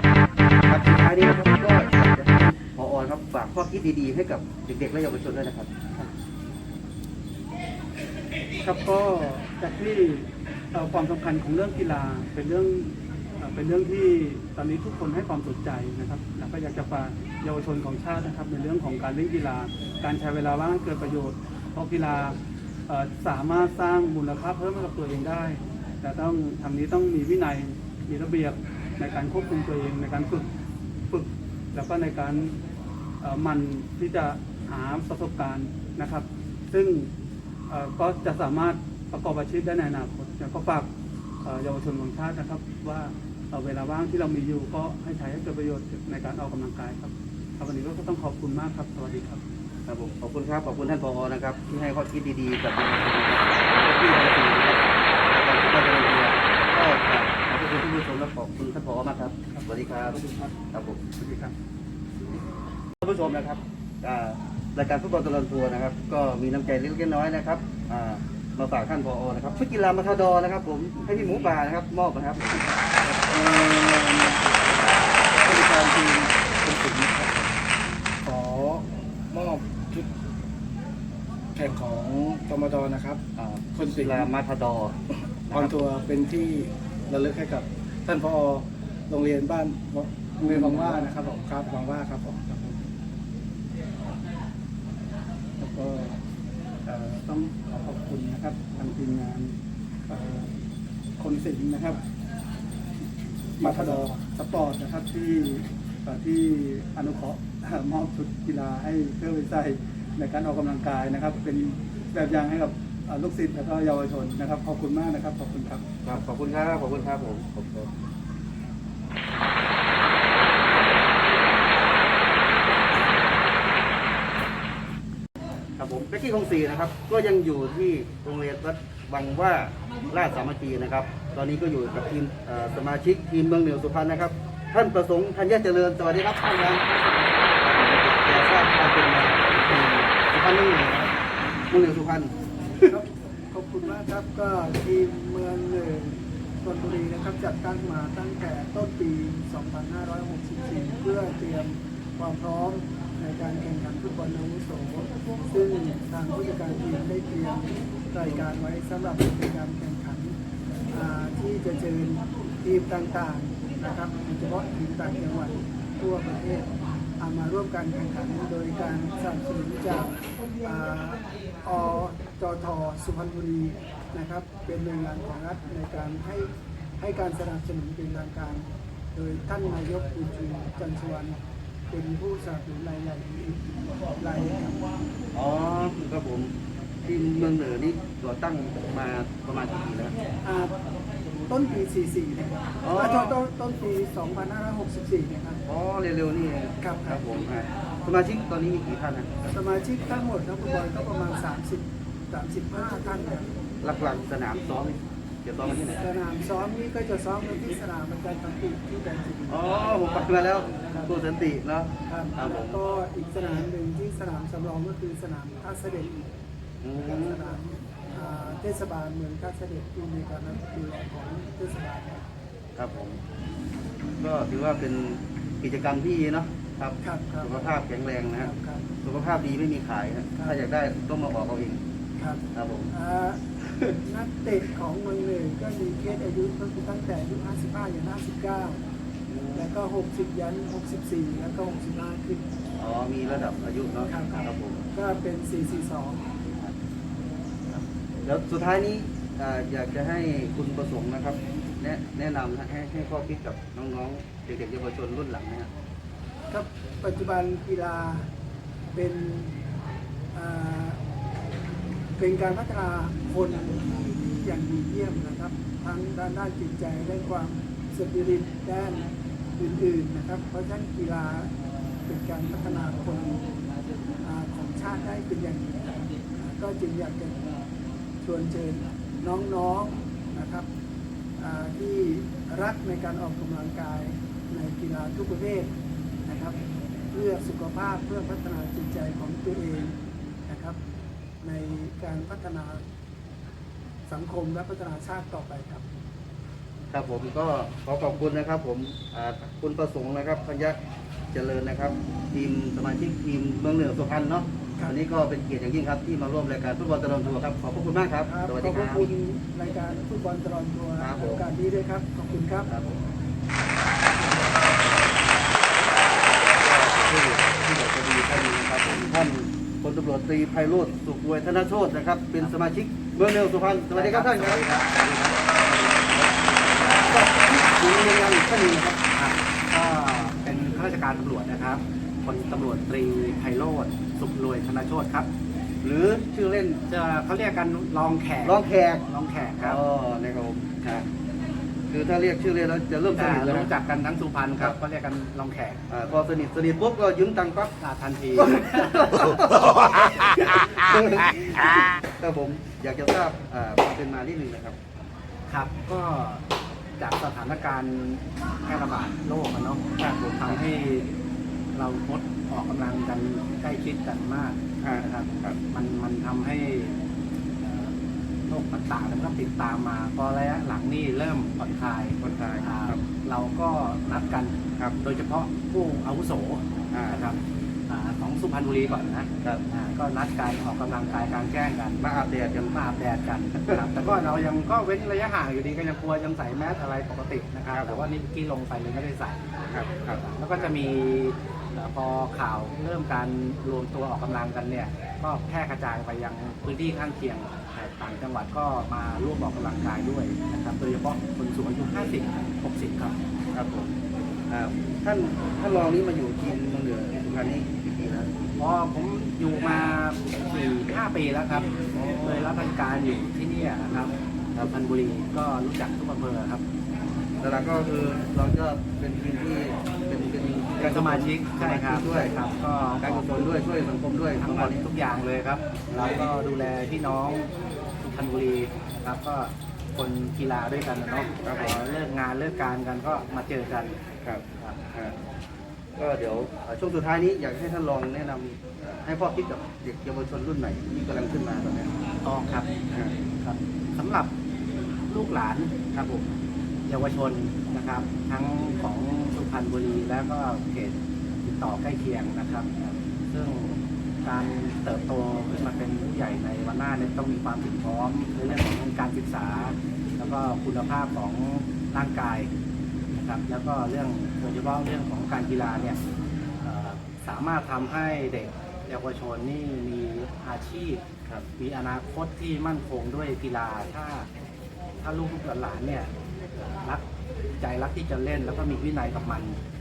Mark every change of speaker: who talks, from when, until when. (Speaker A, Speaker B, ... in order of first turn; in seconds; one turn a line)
Speaker A: 0.7-5.7
Speaker B: 8.6-22.4
Speaker B: 22.9-30.5
Speaker B: 31.1-32.6
Speaker B: 33.2-37.1
Speaker B: 37.7-40.9
Speaker B: 41.4-49.4
Speaker A: 49.9-61.0
Speaker B: 59.5-60.5
Speaker B: 61.2-61.5
Speaker A: 63.0-74.7
Speaker C: 73.2-74.3
Speaker C: 75.4-77.4
Speaker C: 78.2-80.1
Speaker C: 81.5-83.2
Speaker A: 83.4-85.0
Speaker C: 83.7-84.3
Speaker A: 85.5-85.8
Speaker C: 85.5-92.8
Speaker A: 90.4-91.1
Speaker C: 95.7-96.1
Speaker B: 96.8-99.5
Speaker B: 100.1-100.5
Speaker B: 101.2-102.0
Speaker B: 103.6-115.9
Speaker C: 103.6-104.2
Speaker A: 116.0-117.9
Speaker A: 125.8-137.1
Speaker A: 137.6-141.2
Speaker A: 141.7-142.3
Speaker D: 142.9-160.3
Speaker D: 160.9-181.4
Speaker D: 181.9-184.8
Speaker A: 185.3-190.2
Speaker D: 190.4-190.8
Speaker D: 191.5-195.6
Speaker A: 192.8-193.3
Speaker A: 195.7-199.3
Speaker D: 196.8-197.4
Speaker D: 199.4-203.5
Speaker A: 203.8-206.0
Speaker D: 205.6-209.8
Speaker A: 209.5-212.8
Speaker D: 212.1-216.3
Speaker A: 216.8-217.4
Speaker D: 217.0-222.2
Speaker A: 222.8-223.2
Speaker A: 224.2-231.8
Speaker D: 227.0-227.7
Speaker D: 228.4-228.9
Speaker D: 232.2-238.8
Speaker A: 232.5-232.9
Speaker A: 239.3-239.7
Speaker D: 239.5-242.5
Speaker A: 242.8-244.8
Speaker D: 244.1-246.2
Speaker A: 247.7-255.7
Speaker D: 256.5-258.3
Speaker D: 258.9-259.6
Speaker D: 260.3-261.0
Speaker D: 262.2-271.5
Speaker D: 272.1-273.5
Speaker D: 274.2-277.6
Speaker D: 278.2-280.7
Speaker D: 281.4-285.7
Speaker D: 286.2-286.6
Speaker D: 287.1-290.8
Speaker D: 291.4-292.8
Speaker D: 294.1-295.8
Speaker A: 296.9-300.8
Speaker A: 301.3-309.1
Speaker D: 308.2-312.7
Speaker A: 311.0-311.4
Speaker A: 312.7-313.0
Speaker D: 314.2-314.9
Speaker A: 316.2-324.6
Speaker E: 323.9-325.4
Speaker A: 325.5-329.0
Speaker E: 329.1-335.3
Speaker A: 335.8-336.8
Speaker E: 336.9-339.8
Speaker A: 338.4-339.0
Speaker A: 339.6-341.0
Speaker A: 341.9-343.7
Speaker E: 343.1-345.8
Speaker A: 345.9-347.7
Speaker E: 347.8-349.2
Speaker A: 348.3-354.8
Speaker E: 355.5-356.4
Speaker E: 357.0-361.1
Speaker A: 360.0-360.6
Speaker E: 361.7-367.0
Speaker A: 364.8-365.6
Speaker E: 367.6-382.0
Speaker A: 372.2-373.0
Speaker A: 376.9-377.3
Speaker A: 382.0-382.8
Speaker E: 382.7-389.4
Speaker A: 383.6-383.9
Speaker A: 387.7-388.1
Speaker A: 389.7-390.8
Speaker E: 390.2-403.2
Speaker A: 403.5-404.0
Speaker A: 404.5-408.3
Speaker E: 408.6-416.6
Speaker A: 411.9-412.5
Speaker A: 417.4-422.4
Speaker E: 420.8-423.6
Speaker A: 423.0-424.9
Speaker E: 424.4-427.5
Speaker A: 425.9-426.3
Speaker E: 428.0-434.0
Speaker A: 431.4-431.7
Speaker A: 434.2-435.1
Speaker A: 435.9-441.9
Speaker E: 442.2-442.7
Speaker E: 443.4-444.3
Speaker E: 445.1-446.3
Speaker E: 446.8-462.5
Speaker E: 463.1-466.0
Speaker E: 466.6-471.0
Speaker E: 471.6-474.3
Speaker E: 475.0-477.1
Speaker E: 477.6-479.6